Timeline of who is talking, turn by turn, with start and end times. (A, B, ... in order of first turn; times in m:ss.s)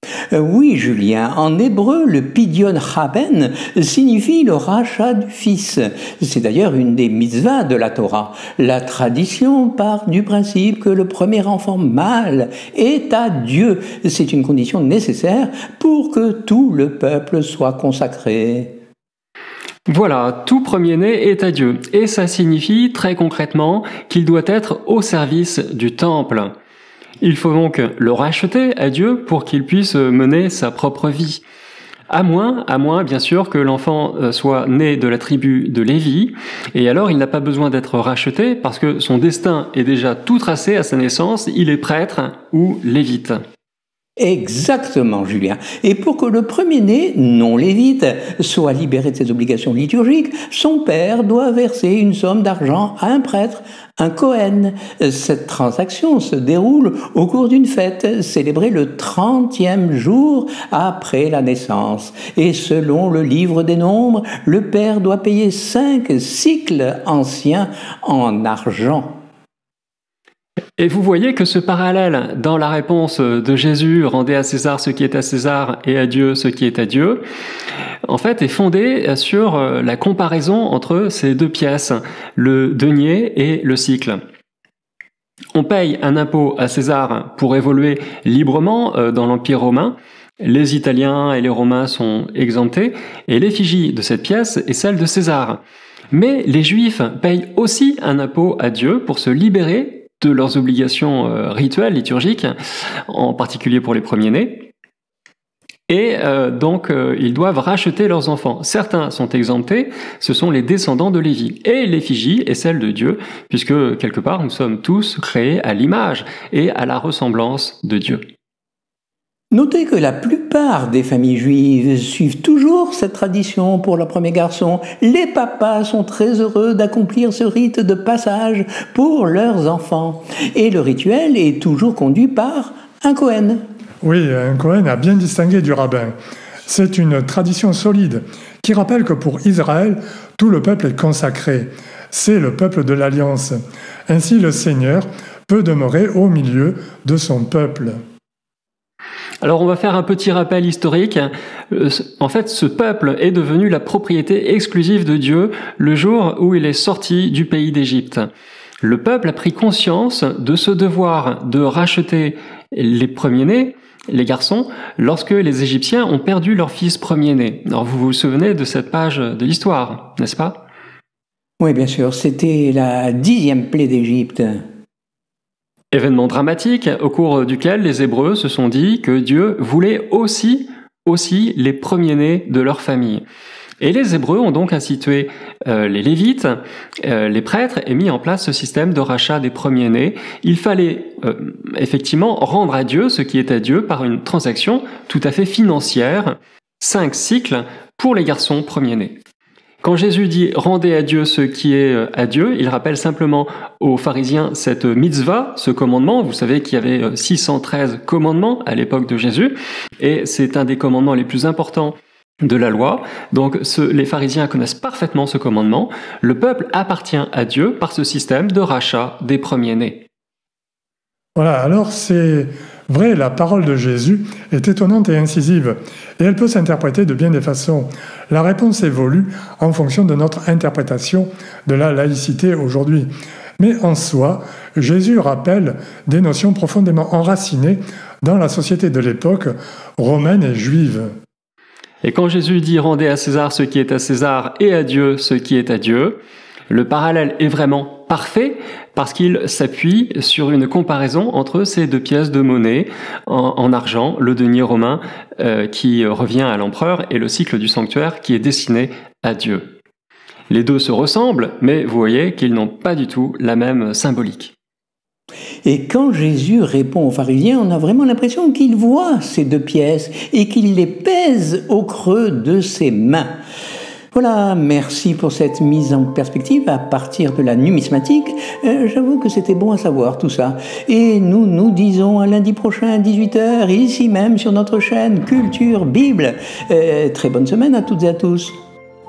0:00.3-0:18.7 A
0:19.9-0:26.5 B
0:27.2-0:31.4 B
0:32.1-0:43.4 B
0:44.2-1:09.1 A
1:10.8-1:17.2 B
1:18.1-1:24.2 B
1:25.5-1:35.6 B
1:36.1-1:42.5 B
1:43.1-1:44.7 B
1:45.9-1:58.2 B
1:59.5-2:13.6 A
2:14.0-2:16.1 C
2:16.6-2:28.0 C
2:29.4-2:38.3 B
2:38.8-2:50.6 B
2:51.6-2:54.6 A
2:55.9-3:03.2 B
3:03.8-3:19.2 B
3:19.8-3:40.0 B
3:41.4-3:53.1 C
3:53.6-4:01.1 C
4:02.0-4:06.2 B
4:06.7-4:19.7 B
4:20.5-4:24.5 B
4:25.6-4:33.3 A
4:34.1-4:48.5 A